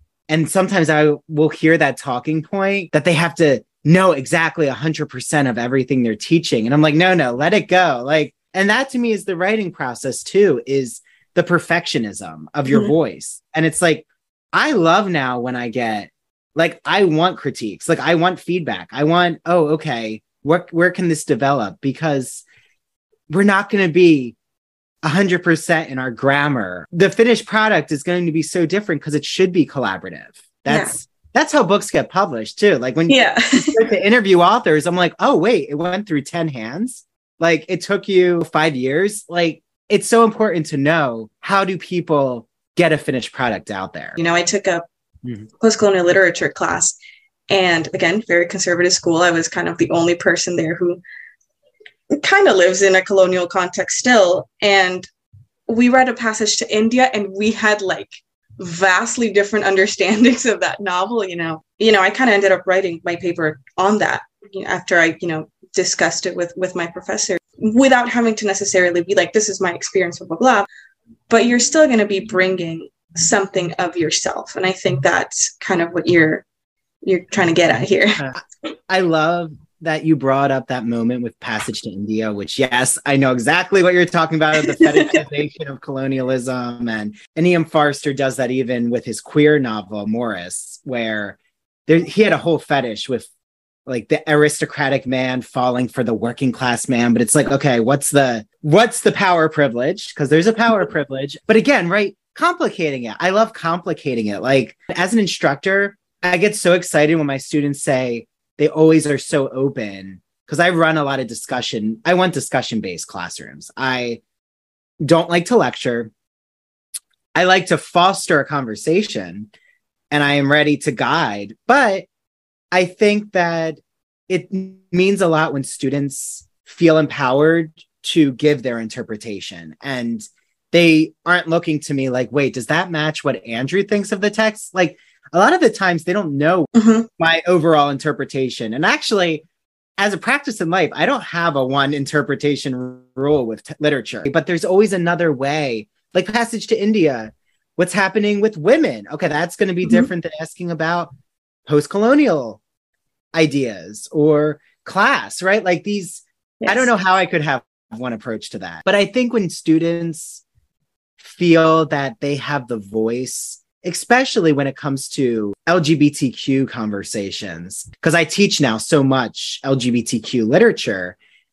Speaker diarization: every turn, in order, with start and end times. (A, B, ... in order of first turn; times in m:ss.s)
0:00.3-0:22.4 A
0:23.3-0:24.4 A
0:25.0-0:44.2 A
0:30.7-0:30.9 B
0:33.1-0:33.8 B
0:44.2-0:44.8 B
0:45.5-0:47.0 B
0:47.5-0:51.0 B
0:52.1-0:55.1 B
0:55.7-1:10.7 B
1:11.3-1:16.4 B
1:17.0-1:18.3 B
1:18.2-1:33.3 A
1:24.6-1:25.2 B
1:33.8-1:54.2 A
1:55.0-1:56.1 A
1:57.3-1:59.5 A
2:00.1-2:02.0 A
2:02.7-2:19.4 A
2:16.7-2:17.1 B
2:20.0-2:31.1 A
2:31.6-2:32.6 A
2:33.3-2:40.4 A
2:36.6-2:36.9 B
2:41.2-2:51.2 A